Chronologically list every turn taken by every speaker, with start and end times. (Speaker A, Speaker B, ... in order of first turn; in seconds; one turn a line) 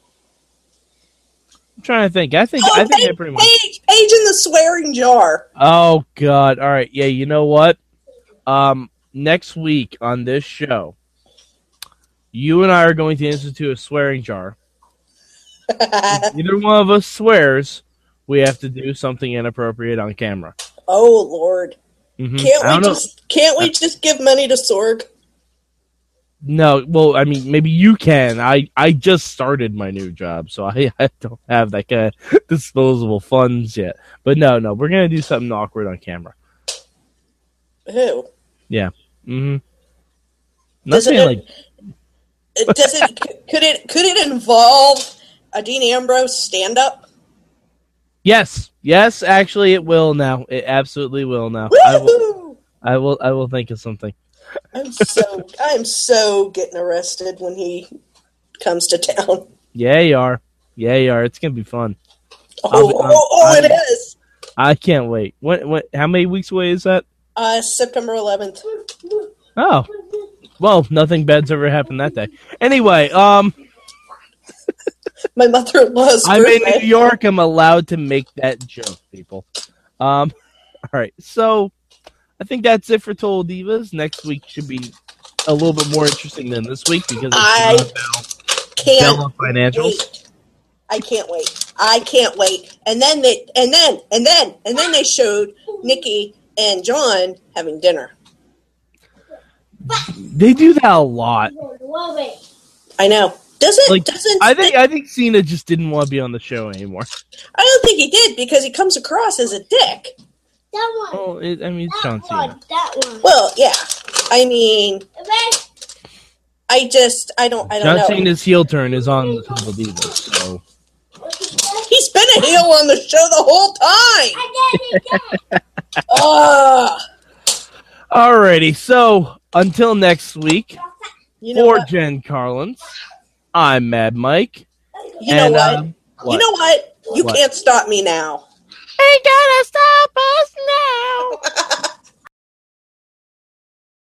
Speaker A: 1.8-3.5
Speaker B: 2.6-5.4
Speaker A: 5.6-7.8
Speaker A: 8.4-10.9
Speaker A: 12.3-14.6
Speaker B: 15.7-16.3
Speaker A: 16.1-20.5
Speaker B: 20.9-21.8
Speaker A: 22.2-23.0
Speaker B: 22.4-25.1
Speaker A: 26.4-36.3
Speaker B: 37.9-38.3
Speaker A: 38.7-39.6
Speaker A: 40.9-41.4
Speaker B: 40.9-41.4
Speaker B: 42.6-47.0
Speaker A: 48.2-52.2
Speaker B: 51.7-52.6
Speaker A: 52.8-54.1
Speaker B: 54.7-57.9
Speaker B: 58.6-59.5
Speaker A: 59.7-62.0
Speaker B: 62.6-64.1
Speaker A: 62.7-63.8
Speaker A: 64.6-67.0
Speaker B: 67.3-68.6
Speaker A: 69.5-69.9
Speaker A: 70.6-73.5
Speaker B: 75.3-76.9
Speaker A: 76.2-79.4
Speaker A: 80.0-80.3
Speaker A: 80.9-81.7
Speaker A: 82.4-84.9
Speaker A: 85.5-88.3
Speaker B: 87.3-87.9
Speaker B: 88.8-90.2
Speaker A: 88.8-90.0
Speaker B: 90.9-98.1
Speaker A: 99.9-101.5
Speaker C: 101.5-102.4
Speaker B: 103.0-104.7
Speaker A: 103.9-107.1
Speaker B: 107.5-110.1
Speaker C: 110.7-111.2
Speaker A: 111.1-112.5
Speaker C: 111.9-113.3
Speaker B: 113.2-115.0
Speaker C: 115.2-115.6
Speaker B: 116.7-118.2
Speaker A: 117.7-120.6
Speaker C: 119.3-119.6
Speaker C: 121.2-121.9
Speaker B: 121.9-124.4
Speaker C: 124.3-125.4
Speaker A: 124.9-125.6
Speaker B: 126.1-127.0
Speaker A: 128.1-130.8
Speaker B: 131.4-131.9
Speaker A: 131.5-132.8
Speaker A: 133.5-134.7
Speaker B: 135.2-138.4
Speaker A: 135.3-136.4
Speaker A: 139.0-141.4
Speaker B: 141.4-141.8